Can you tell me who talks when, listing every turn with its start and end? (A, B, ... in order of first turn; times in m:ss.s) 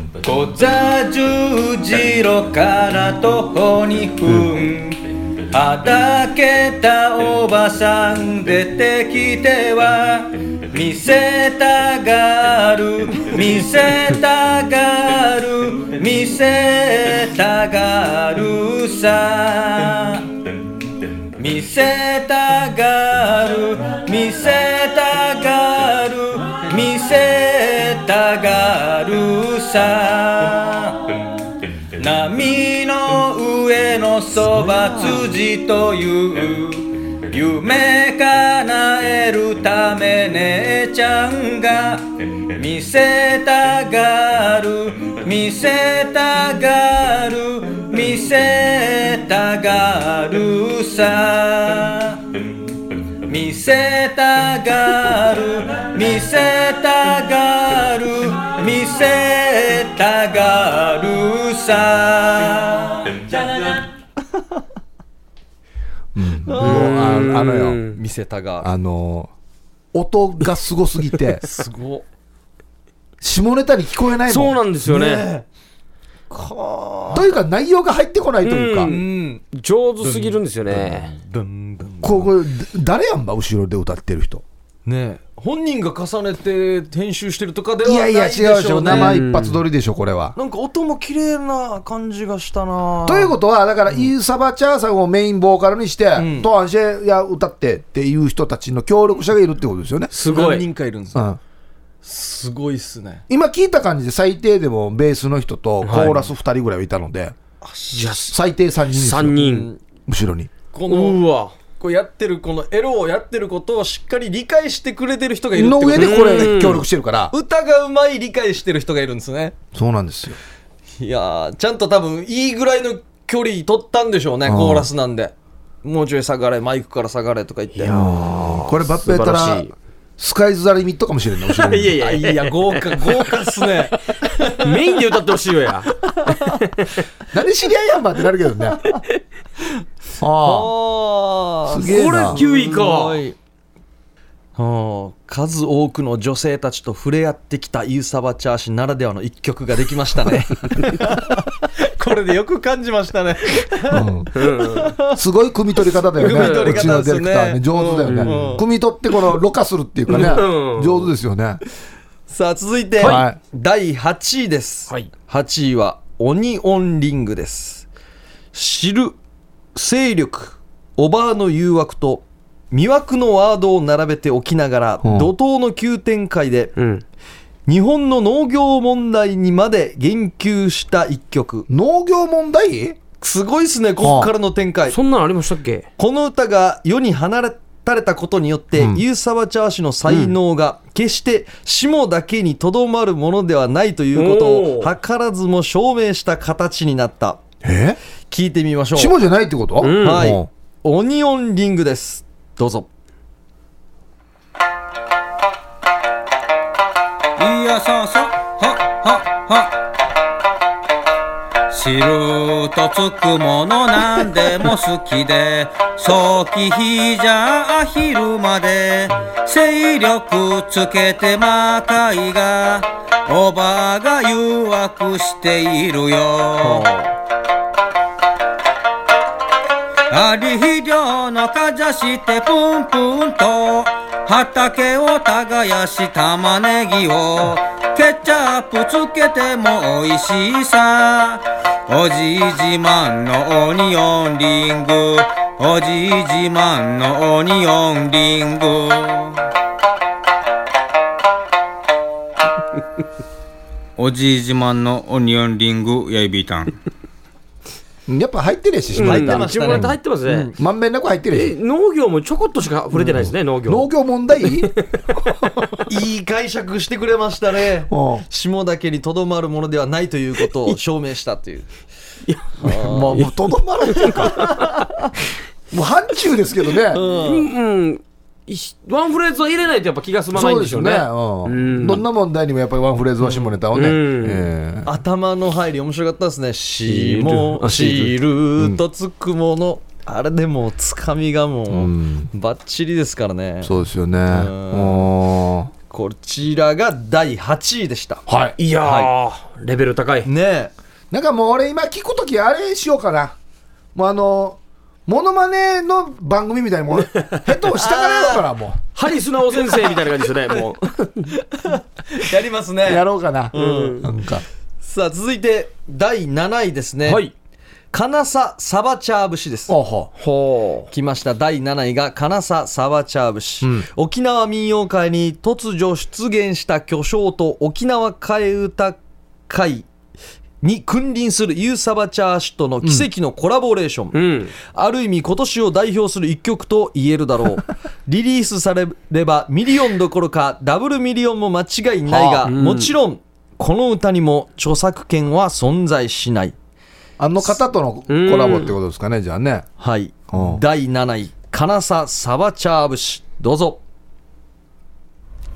0:00.2-0:20.3 A
0:21.4-0:31.2 A
0:32.0-0:52.3 A
0:53.3-1:03.2 A
1:03.5-1:03.8 B
1:06.2-1:07.8 C
1:06.4-1:07.3 B
1:06.6-1:08.0 D
1:07.9-1:08.7 B
1:08.6-1:09.3 C
1:09.9-1:11.4 C
1:11.5-1:12.1 B
1:13.2-1:14.6 C
1:14.3-1:15.3 D
1:14.9-1:15.5 B
1:16.3-1:17.4 B
1:17.1-1:18.9 C
1:18.4-1:21.1 D
1:18.8-1:19.4 B
1:20.0-1:22.3 B
1:22.0-1:24.4 C
1:24.9-1:29.2 B
1:27.8-1:30.4 C
1:28.9-1:29.6 D
1:30.4-1:33.4 B
1:33.0-1:40.1 C
1:36.2-1:36.5 B
1:40.1-1:40.6 D
1:40.2-1:41.3 B
1:42.0-1:43.2 B
1:43.3-1:47.4 C
1:45.8-1:46.2 D
1:47.6-1:48.3 B
1:47.9-1:48.4 D
1:48.3-1:49.5 C
1:48.9-1:49.7 D
1:49.4-1:49.8 B
1:50.1-1:50.5 C
1:50.7-1:51.2 B
1:50.9-1:51.5 D
1:51.8-1:56.6 B
1:55.5-1:57.3 C
1:55.9-1:56.8 D
1:57.3-1:59.6 B
1:59.7-2:00.4 C
2:01.0-2:08.1 B
2:04.5-2:04.9 C
2:07.8-2:09.7 D
2:07.9-2:12.0 C
2:11.5-2:13.2 D
2:12.0-2:15.0 B
2:14.6-2:16.8 D
2:16.2-2:16.6 B
2:17.3-2:18.8 C
2:20.2-2:20.7 C
2:20.4-2:23.4 B
2:21.7-2:22.4 C
2:21.9-2:23.2 D
2:24.6-2:35.2 B
2:33.9-2:34.3 C
2:34.3-2:34.9 D
2:35.2-2:41.6 C
2:36.2-2:38.6 B
2:36.2-2:36.9 D
2:38.1-2:38.4 D
2:40.1-2:41.1 D
2:42.3-2:47.9 B
2:43.0-2:43.2 D
2:43.0-2:43.4 C
2:48.5-2:49.2 B
2:49.8-2:56.7 B
2:55.0-2:55.3 C
2:56.8-2:57.0 D
2:57.7-3:01.7 B
3:01.7-3:03.0 C
3:03.2-3:05.0 B
3:04.0-3:04.3 C
3:04.9-3:05.9 D
3:06.0-3:17.4 B
3:08.8-3:09.0 C
3:14.2-3:14.9 D
3:17.6-3:18.0 C
3:18.3-3:19.2 B
3:19.0-3:20.5 C
3:19.8-3:20.4 D
3:20.0-3:22.9 B
3:27.4-3:29.8 A
3:31.7-3:46.9 A
3:46.6-3:47.2 B
3:50.1-4:09.4 A
4:14.0-4:16.7 A
4:18.1-4:19.9 C
4:18.9-4:20.6 B
4:19.0-4:20.5 D
4:20.6-4:21.6 C
4:21.3-4:23.9 D
4:22.9-4:24.7 C
4:24.4-4:24.8 D
4:25.9-4:31.7 B
4:27.9-4:28.2 C
4:32.3-4:33.3 D
4:32.6-4:33.3 B
4:32.6-4:34.6 C
4:34.0-4:35.1 B
4:35.7-4:37.0 C
4:36.9-4:37.5 B
4:37.1-4:42.0 D
4:40.3-4:44.9 C
4:43.2-4:43.6 B
4:43.7-4:44.5 D
4:44.8-4:55.1 B
4:46.9-4:48.2 D
4:51.7-4:52.3 C
4:53.6-4:55.7 C
4:55.9-4:58.2 B
4:58.3-4:58.6 C
4:58.6-5:00.3 D
4:58.8-4:59.1 B
5:00.2-5:00.7 B
5:01.1-5:03.4 C
5:04.0-5:08.8 C
5:07.8-5:08.5 B
5:09.0-5:11.3 D
5:09.7-5:10.0 B
5:11.3-5:14.1 B
5:12.9-5:14.4 C
5:13.5-5:14.0 D
5:14.8-5:17.2 B
5:17.1-5:17.3 D
5:17.9-5:19.8 B
5:19.7-5:20.1 C
5:20.2-5:20.9 D
5:20.9-5:29.0 B
5:23.6-5:23.9 C
5:29.5-5:29.9 B
5:30.6-5:46.6 B
5:32.8-5:33.1 C
5:34.1-5:34.5 D
5:42.1-5:42.5 C
5:42.5-5:42.9 D
5:47.2-5:49.7 C
5:48.1-5:48.7 D
5:49.8-5:53.8 B
5:50.3-5:50.6 C